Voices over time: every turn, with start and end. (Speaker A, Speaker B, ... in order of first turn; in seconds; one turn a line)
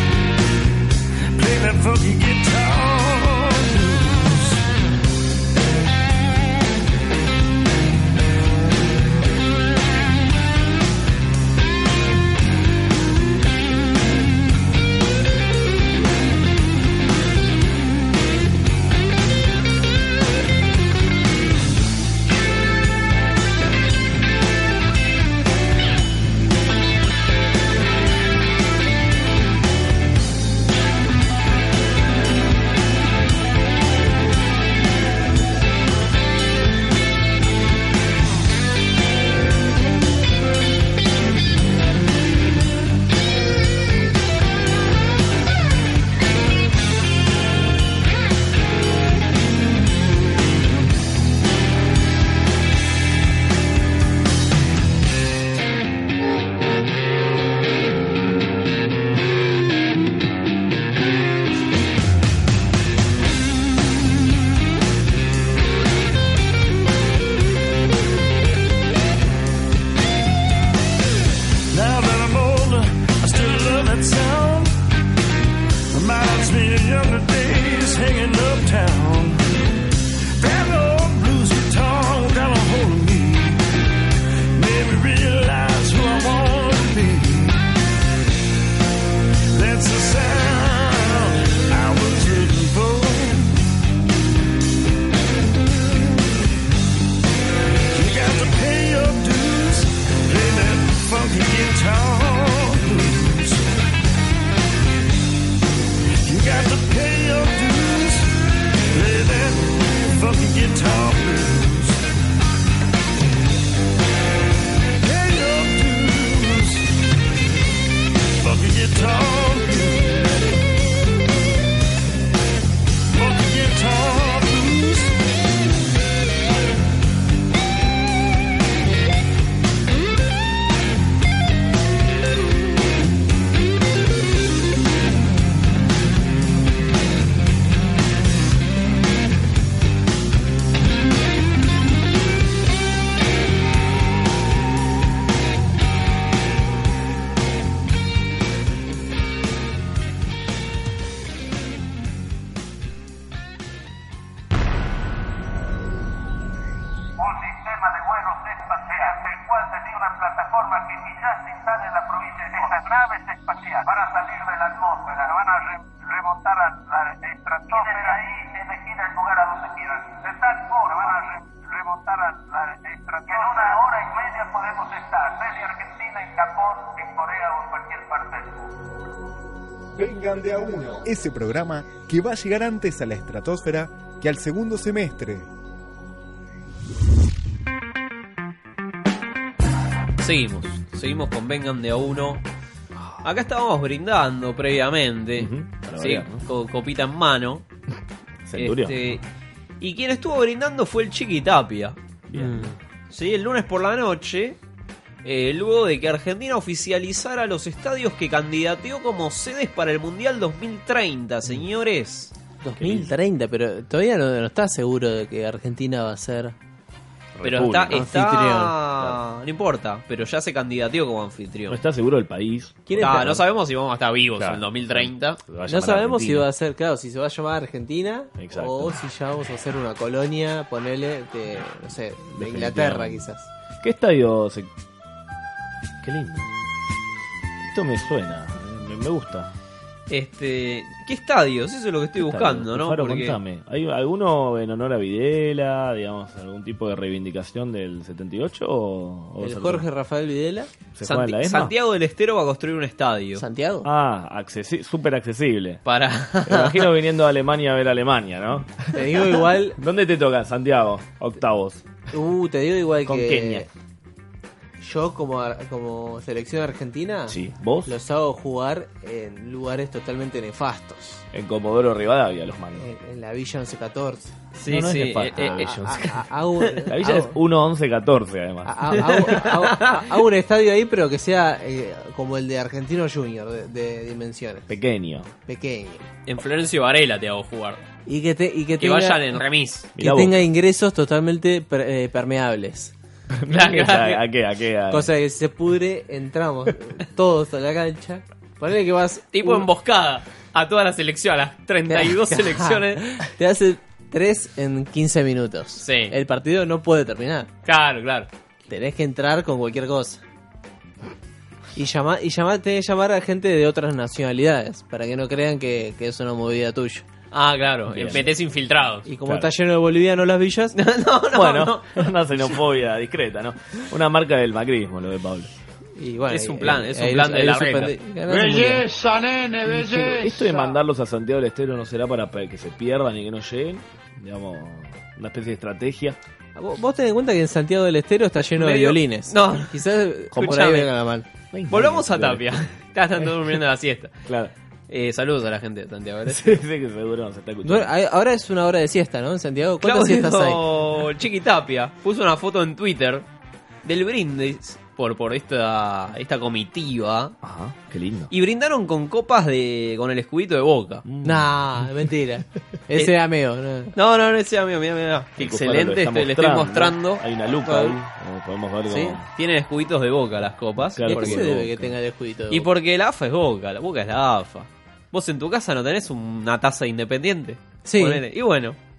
Speaker A: 1.3-4.6
Speaker A: 71.7-74.7
Speaker A: 75.9-79.4
Speaker A: 80.4-83.6
Speaker A: 84.5-87.7
Speaker A: 89.5-93.6
Speaker A: 97.9-103.6
Speaker A: 106.2-108.3
Speaker A: 108.9-112.0
Speaker A: 115.0-116.9
Speaker A: 118.3-120.3
Speaker A: 123.1-125.1
Speaker B: 157.2-178.6
Speaker C: 179.9-185.5
Speaker D: 190.2-192.4
Speaker D: 193.2-197.6
Speaker E: 195.4-196.4
Speaker E: 198.4-199.2
Speaker D: 198.5-199.2
Speaker D: 199.8-201.9
Speaker E: 202.3-202.7
Speaker F: 202.3-202.7
Speaker D: 203.1-204.6
Speaker D: 205.2-212.3
Speaker F: 212.6-216.5
Speaker E: 212.8-213.1
Speaker E: 217.3-218.0
Speaker D: 217.4-221.8
Speaker F: 217.9-218.7
Speaker E: 221.7-223.4
Speaker F: 222.9-223.4
Speaker D: 223.0-225.4
Speaker E: 224.4-226.4
Speaker F: 225.7-233.5
Speaker E: 228.4-229.0
Speaker E: 232.4-233.2
Speaker E: 233.8-234.7
Speaker E: 236.0-236.5
Speaker E: 237.6-239.5
Speaker D: 240.1-243.4
Speaker E: 242.2-249.8
Speaker F: 249.4-250.7
Speaker E: 250.9-251.7
Speaker D: 251.0-253.4
Speaker F: 253.3-253.9
Speaker E: 253.8-255.8
Speaker D: 255.8-256.9
Speaker E: 256.4-258.9
Speaker F: 258.9-259.8
Speaker E: 259.8-261.8
Speaker F: 262.1-263.7
Speaker E: 263.1-263.7
Speaker F: 264.8-271.2
Speaker E: 267.3-267.9
Speaker E: 271.3-272.9
Speaker F: 272.8-274.3
Speaker D: 274.5-276.0
Speaker E: 274.7-276.2
Speaker F: 275.4-277.4
Speaker E: 276.9-279.4
Speaker F: 278.6-284.7
Speaker D: 279.0-280.0
Speaker E: 284.7-285.3
Speaker F: 285.4-286.0
Speaker D: 286.2-287.8
Speaker F: 288.1-289.4
Speaker D: 288.8-289.9
Speaker E: 289.9-290.5
Speaker F: 290.0-292.9
Speaker E: 293.4-295.1
Speaker D: 293.5-294.2
Speaker F: 294.9-299.6
Speaker D: 299.3-303.0
Speaker F: 301.9-307.5
Speaker D: 305.8-306.1
Speaker D: 307.6-308.3
Speaker F: 308.7-310.2
Speaker F: 311.8-317.1
Speaker D: 317.3-319.1
Speaker E: 317.9-318.3
Speaker F: 319.1-320.8
Speaker D: 320.7-322.1
Speaker E: 321.3-325.5
Speaker F: 326.0-328.9
Speaker D: 326.3-327.9
Speaker E: 329.6-336.2
Speaker F: 336.5-341.2
Speaker D: 338.6-339.7
Speaker E: 340.4-340.6
Speaker D: 340.4-340.9
Speaker E: 341.5-342.6
Speaker D: 341.7-344.1
Speaker E: 344.3-344.5
Speaker D: 344.9-346.6
Speaker E: 346.3-347.9
Speaker F: 347.6-350.6
Speaker D: 349.8-353.2
Speaker D: 353.8-357.4
Speaker E: 357.4-358.3
Speaker D: 358.3-361.0
Speaker E: 361.1-361.5
Speaker F: 361.2-363.9
Speaker D: 363.9-367.9
Speaker E: 365.4-369.2
Speaker D: 368.9-371.4
Speaker E: 370.9-371.9
Speaker F: 371.1-372.7
Speaker D: 372.5-378.8
Speaker F: 377.9-378.2